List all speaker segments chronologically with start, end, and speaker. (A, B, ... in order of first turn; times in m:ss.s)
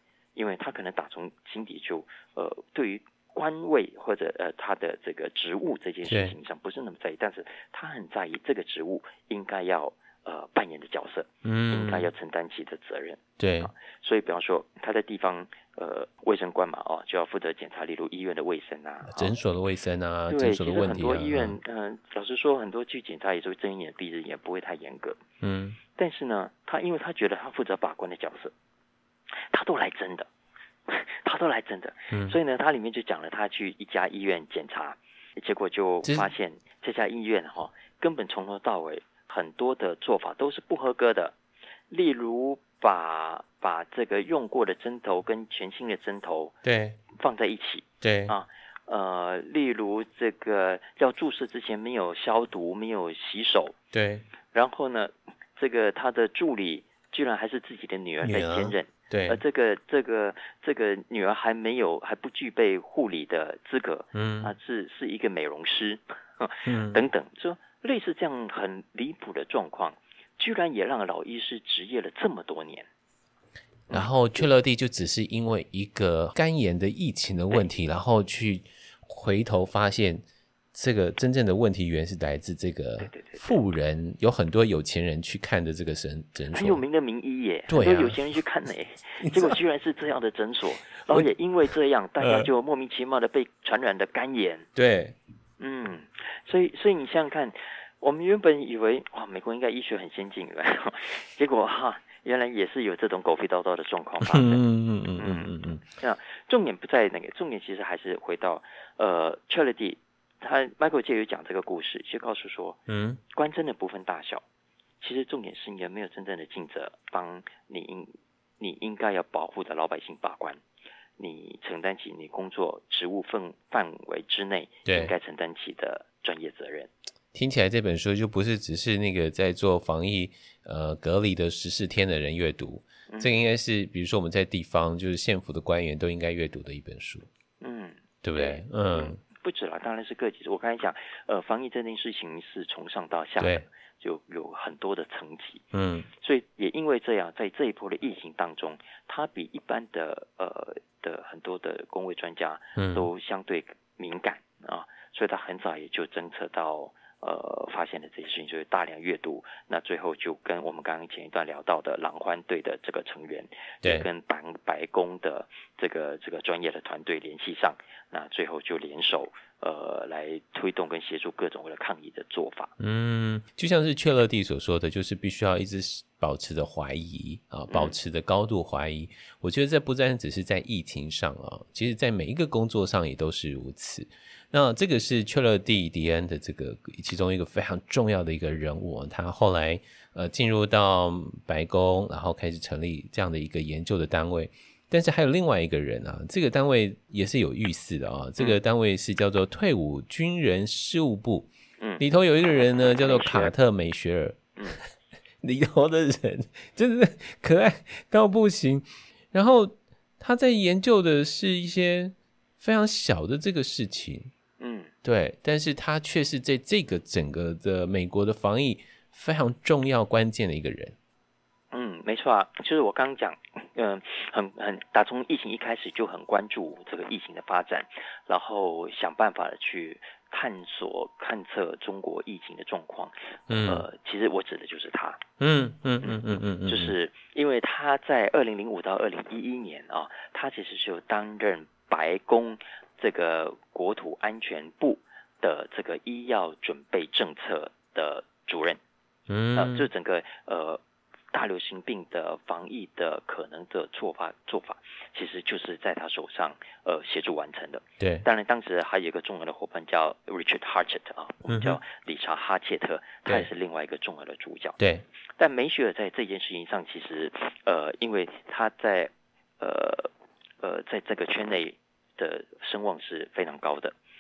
0:00.4-0:19.3 A
0:06.0-0:06.3 B
0:11.4-0:12.1 B
0:13.4-0:13.7 B
0:19.1-0:21.6 B
0:20.3-0:25.2 A
0:25.4-0:25.8 B
0:26.0-0:28.5 A
0:29.5-0:30.3 A
0:30.9-0:41.4 A
0:32.1-0:32.4 B
0:41.9-0:46.6 A
0:46.6-0:47.0 B
0:47.1-0:53.8 A
0:48.0-0:48.3 B
0:53.9-0:54.2 B
0:54.5-1:12.9 A
0:58.2-0:59.4 B
1:04.1-1:04.5 B
1:06.6-1:07.0 B
1:13.9-1:14.4 A
1:13.9-1:20.2 B
1:20.7-1:26.8 B
1:23.0-1:23.6 A
1:26.5-1:34.7 A
1:27.7-1:28.2 B
1:29.2-1:29.5 B
1:32.2-1:32.5 B
1:34.7-1:35.2 B
1:35.6-1:44.6 A
1:44.2-1:45.8 B
1:45.2-1:52.8 A
1:52.9-1:53.2 B
1:53.3-1:54.4 A
1:55.0-2:00.6 A
2:01.2-2:06.9 A
2:04.8-2:05.1 B
2:07.3-2:17.3 B
2:13.1-2:13.4 A
2:17.6-2:52.7 A
2:18.2-2:19.2 B
2:23.4-2:23.6 B
2:25.7-2:26.1 B
2:32.8-2:33.1 B
2:52.8-3:24.5 B
2:57.7-2:58.0 A
3:21.8-3:22.0 A
3:23.0-3:23.5 A
3:25.4-3:34.3 B
3:34.6-3:34.9 A
3:35.0-3:41.0 B
3:41.7-3:53.1 A
3:53.5-3:53.8 B
3:53.6-3:55.2 A
3:55.4-3:57.0 B
3:56.0-4:08.8 A
4:09.3-4:09.9 B
4:09.5-4:10.8 A
4:11.3-4:24.8 A
4:18.0-4:18.2 B
4:21.5-4:21.8 B
4:24.8-4:25.0 B
4:25.4-4:33.9 A